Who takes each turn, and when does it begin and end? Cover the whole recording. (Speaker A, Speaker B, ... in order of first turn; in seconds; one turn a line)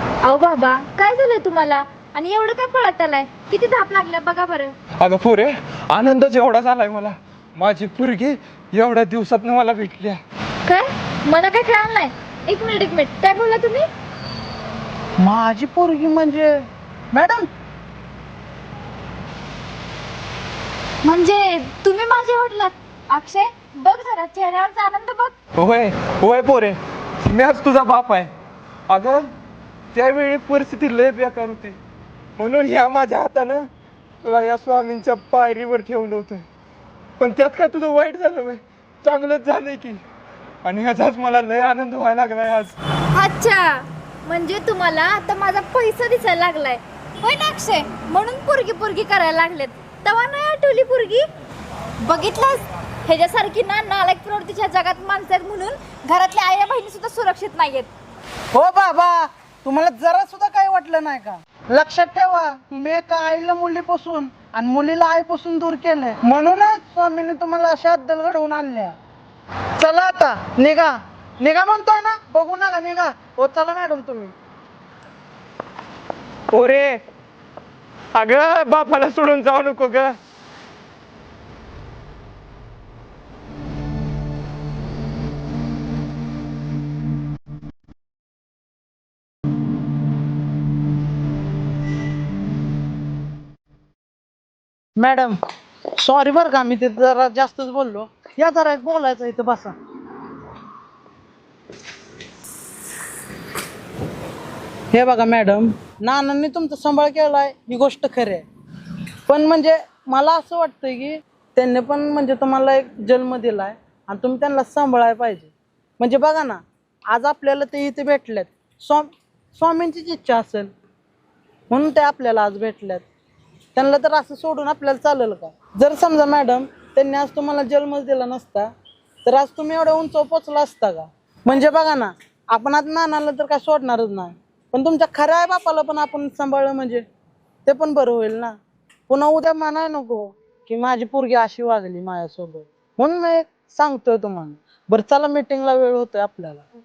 Speaker A: 0.2-4.7
Speaker B: 5.0-10.2
Speaker A: 10.7-13.9
Speaker C: 15.2-17.5
Speaker A: 21.0-25.3
Speaker B: 25.6-26.7
Speaker B: 27.3-28.3
Speaker B: 28.9-29.2
Speaker B: 29.9-31.7
Speaker B: 32.4-33.6
Speaker B: 34.2-36.4
Speaker B: 37.2-40.0
Speaker B: 40.6-42.7
Speaker A: 43.1-51.2
Speaker A: 52.0-57.9
Speaker C: 58.5-68.9
Speaker C: 69.8-74.3
Speaker B: 76.5-76.8
Speaker B: 78.2-80.1
Speaker C: 95.0-95.4
Speaker C: 96.0-99.7
Speaker C: 104.9-108.4
Speaker C: 109.3-120.7
Speaker C: 121.7-123.0
Speaker C: 123.8-128.7
Speaker C: 129.2-137.0
Speaker C: 137.7-138.6
Speaker C: 139.1-146.6